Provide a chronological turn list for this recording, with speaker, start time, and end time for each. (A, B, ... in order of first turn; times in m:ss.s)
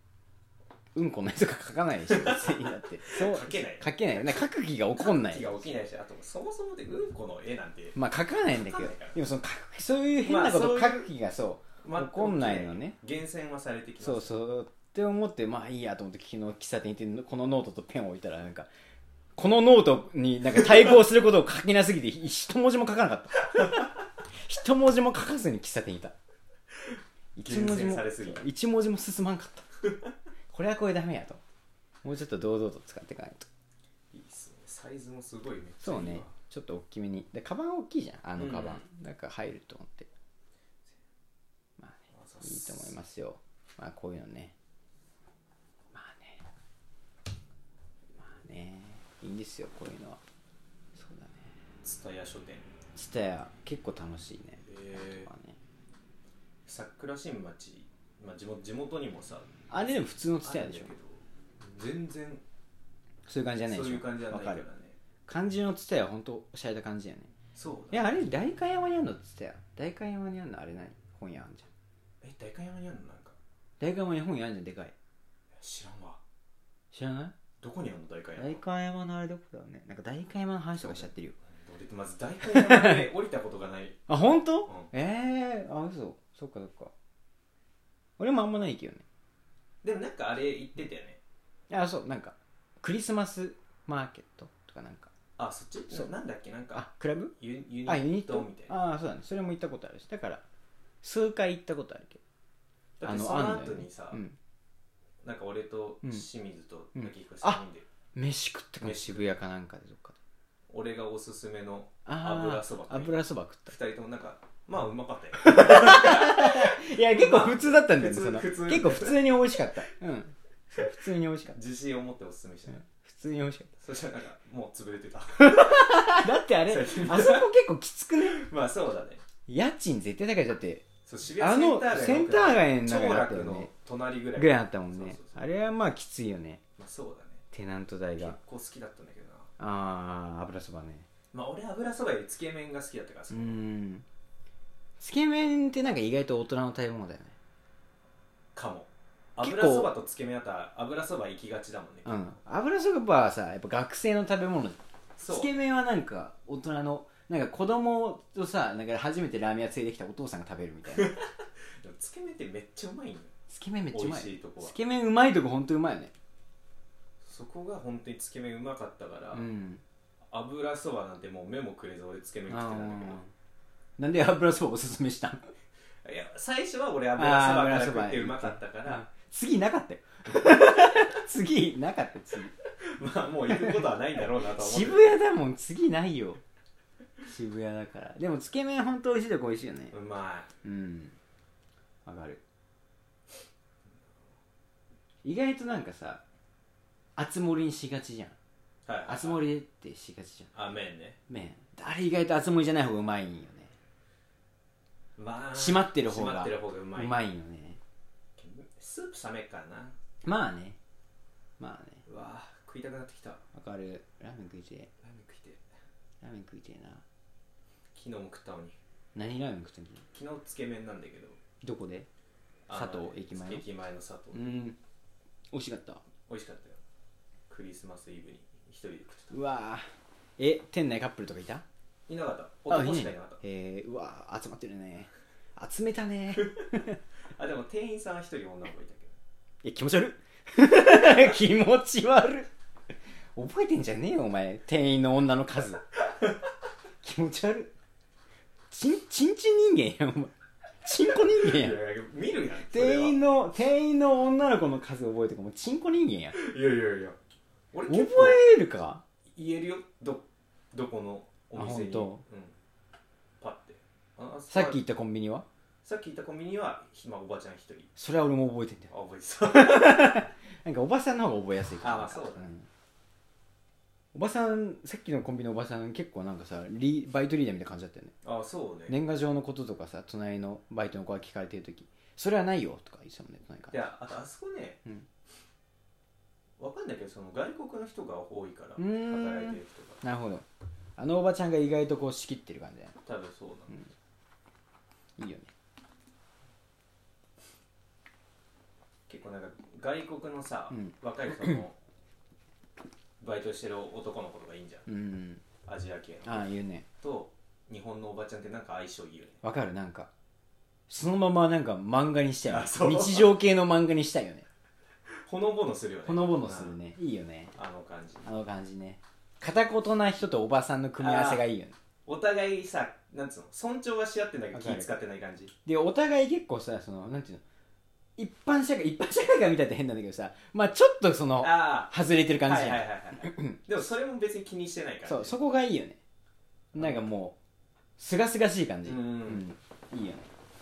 0:00.9-0:05.6 A
0:02.1-0:09.2 B
0:07.9-0:13.0 A
0:10.2-0:11.1 B
0:11.8-0:14.4 B
0:14.0-0:18.7 A
0:19.4-0:26.1 A
0:27.4-0:29.7 A
0:27.4-0:28.4 B
0:30.5-0:31.4 A
0:32.0-0:33.5 A
0:34.1-0:36.4 B
0:35.8-0:40.1 A
0:38.4-0:38.8 B
0:41.8-0:44.6 A
0:42.1-0:43.0 B
0:45.9-0:46.4 A
0:48.2-0:50.2 A
0:50.9-0:51.5 A
0:51.8-0:52.7 B
0:52.9-0:55.6 A
0:54.6-0:55.3 B
0:56.6-0:59.5 B
0:59.7-1:00.9 A
1:00.4-1:02.4 B
1:03.2-1:04.6 A
1:03.7-1:05.0 B
1:05.3-1:07.3 A
1:07.6-1:08.1 B
1:07.9-1:11.7 A
1:12.2-1:13.4 B
1:13.8-1:14.9 A
1:15.6-1:16.2 B
1:16.9-1:17.4 A
1:17.6-1:18.6 B
1:18.4-1:21.4 A
1:20.8-1:24.0 B
1:22.4-1:23.1 A
1:24.1-1:26.9 A
1:28.2-1:29.0 A
1:29.8-1:31.2 B
1:31.7-1:35.1 A
1:35.4-1:38.8 B
1:36.7-1:37.4 A
1:37.9-1:40.4 A
1:41.0-1:42.2 A
1:43.0-1:44.2 B
1:43.0-1:44.4 A
1:45.2-1:47.9 B
1:47.0-1:47.6 A
1:48.1-1:50.2 A
1:48.8-1:49.3 B
1:50.7-1:59.4 B
1:52.1-1:53.7 A
1:55.4-2:01.6 A
2:01.5-2:02.9 B
2:02.8-2:03.7 A
2:03.8-2:07.5 B
2:05.4-2:08.4 A
2:08.2-2:09.2 B
2:09.5-2:10.9 A
2:11.0-2:15.4 B
2:11.4-2:13.7 A
2:14.4-2:16.6 A
2:16.8-2:17.4 B
2:17.5-2:18.4 A
2:18.2-2:19.5 B
2:19.6-2:21.1 A
2:21.3-2:23.6 B
2:23.3-2:24.1 A
2:25.0-2:27.4 A
2:28.6-2:32.2 B
2:29.4-2:29.9 A
2:32.1-2:41.1 A
2:35.2-2:35.6 B
2:40.9-2:41.3 B
2:41.8-2:43.3 B
2:43.5-2:46.1 A
2:43.9-2:44.8 B
2:47.2-2:49.5 B
2:49.3-2:49.8 A
2:50.3-2:53.2 B
2:52.5-2:53.3 A
2:54.0-2:55.5 A
2:56.0-2:59.1 B
2:57.2-3:02.6 A
3:02.8-3:05.2 B
3:03.5-3:03.9 A
3:04.4-3:06.4 A
3:07.2-3:09.9 A
3:09.9-3:10.5 B
3:10.6-3:11.2 A
3:12.1-3:12.4 A
3:15.2-3:16.2 A
3:17.2-3:18.4 A
3:18.9-3:19.5 B
3:19.1-3:20.5 A
3:20.5-3:21.2 B
3:21.3-3:23.7 A
3:25.2-3:27.2 B
3:25.6-3:27.8 A
3:28.4-3:30.0 B
3:30.2-3:30.8 A
3:31.6-3:32.0 A
3:32.1-3:33.4 B
3:33.5-3:34.9 A
3:35.0-3:35.6 B
3:36.2-3:37.0 A
3:37.9-3:38.8 B
3:39.1-3:40.0 A
3:40.1-3:41.4 B
3:41.6-3:42.1 A
3:42.7-3:44.6 B
3:42.7-3:43.6 A
3:44.3-3:44.8 A
3:45.5-3:46.0 A
3:46.3-3:46.8 B
3:47.5-3:49.4 B
3:49.3-3:49.9 A
3:50.4-3:51.6 A
3:52.1-3:53.4 B
3:52.7-3:57.0 A
3:56.4-3:56.6 B
3:57.4-3:59.2 B
3:59.6-4:02.5 A
4:03.4-4:05.8 A
4:07.0-4:07.7 A
4:08.7-4:11.8 A
4:11.3-4:13.2 B
4:12.7-4:16.4 A
4:16.3-4:17.2 B
4:17.7-4:18.4 B
4:17.9-4:19.0 A
4:19.4-4:22.6 B
4:21.6-4:22.2 A
4:23.4-4:24.8 B
4:24.5-4:25.4 A
4:25.8-4:27.9 B
4:28.0-4:28.9 A
4:28.9-4:30.2 B
4:29.5-4:32.7 A
4:31.8-4:32.5 B
4:34.1-4:38.1 A
4:38.2-4:39.0 B
4:38.9-4:43.9 A
4:43.7-4:44.8 B
4:46.6-4:50.0 B
4:48.8-4:50.4 A
4:51.0-4:53.0 A
4:53.0-4:53.9 B
4:55.2-4:55.5 A
4:59.1-5:01.8 B
5:03.2-5:04.9 B
5:04.9-5:05.4 A
5:05.6-5:09.4 B
5:06.2-5:06.9 A
5:09.4-5:10.1 A
5:10.9-5:14.4 A
5:12.5-5:13.4 B
5:15.2-5:16.8 B
5:16.1-5:17.6 A
5:17.6-5:18.3 B
5:18.2-5:21.7 A
5:21.0-5:21.4 B
5:22.1-5:25.5 B
5:24.5-5:24.9 A
5:25.6-5:27.4 A
5:28.2-5:33.6 A
5:31.4-5:35.4 B
5:35.1-5:36.0 A
5:36.7-5:37.4 A
5:36.7-5:37.0 B
5:38.0-5:40.3 A
5:38.8-5:39.4 B